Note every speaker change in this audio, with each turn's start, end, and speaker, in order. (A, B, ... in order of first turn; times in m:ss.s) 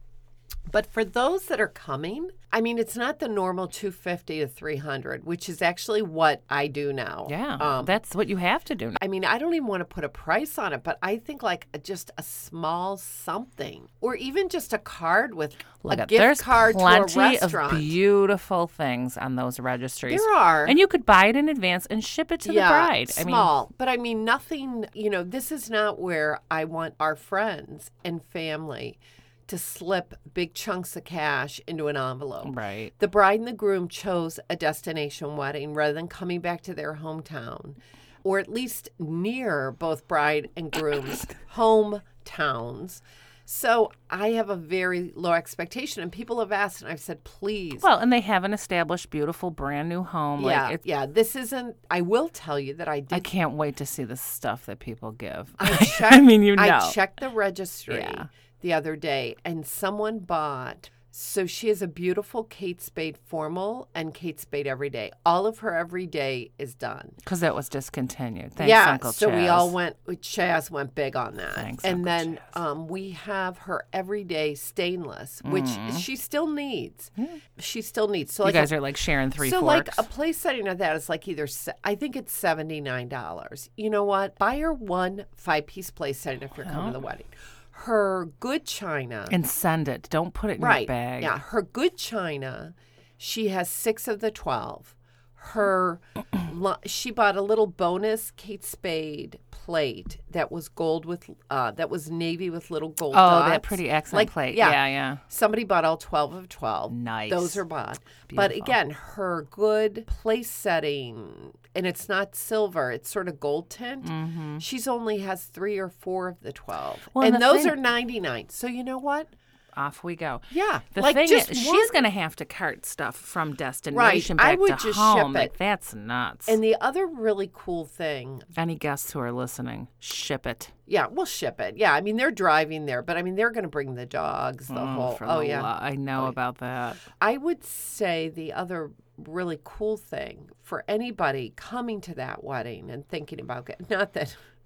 0:00.7-0:08.0 A
0:07.3-0:09.0 B
0:09.0-0:17.9 A
0:15.8-0:23.5 B
0:20.1-0:20.8 A
0:22.4-0:47.8 A
0:32.4-0:32.9 B
0:47.8-0:50.8 B
0:50.4-0:53.3 A
0:53.1-0:57.0 B
0:55.6-1:07.2 A
0:57.9-0:58.3 B
1:07.2-1:09.7 B
1:08.6-1:18.7 A
1:11.5-1:12.5 B
1:15.4-1:16.0 B
1:18.4-1:20.0 B
1:19.4-1:29.3 A
1:26.6-1:27.0 B
1:29.3-1:31.4 B
1:30.6-1:59.3 A
1:43.1-1:45.2 B
1:46.9-1:47.6 B
1:48.3-1:48.7 B
1:54.0-1:54.6 B
1:57.1-1:57.8 B
1:59.7-2:06.6 B
2:00.5-2:02.0 A
2:03.9-2:05.5 A
2:06.4-2:08.5 A
2:08.5-2:10.7 B
2:10.9-2:16.3 A
2:14.7-2:17.0 B
2:17.2-2:24.4 A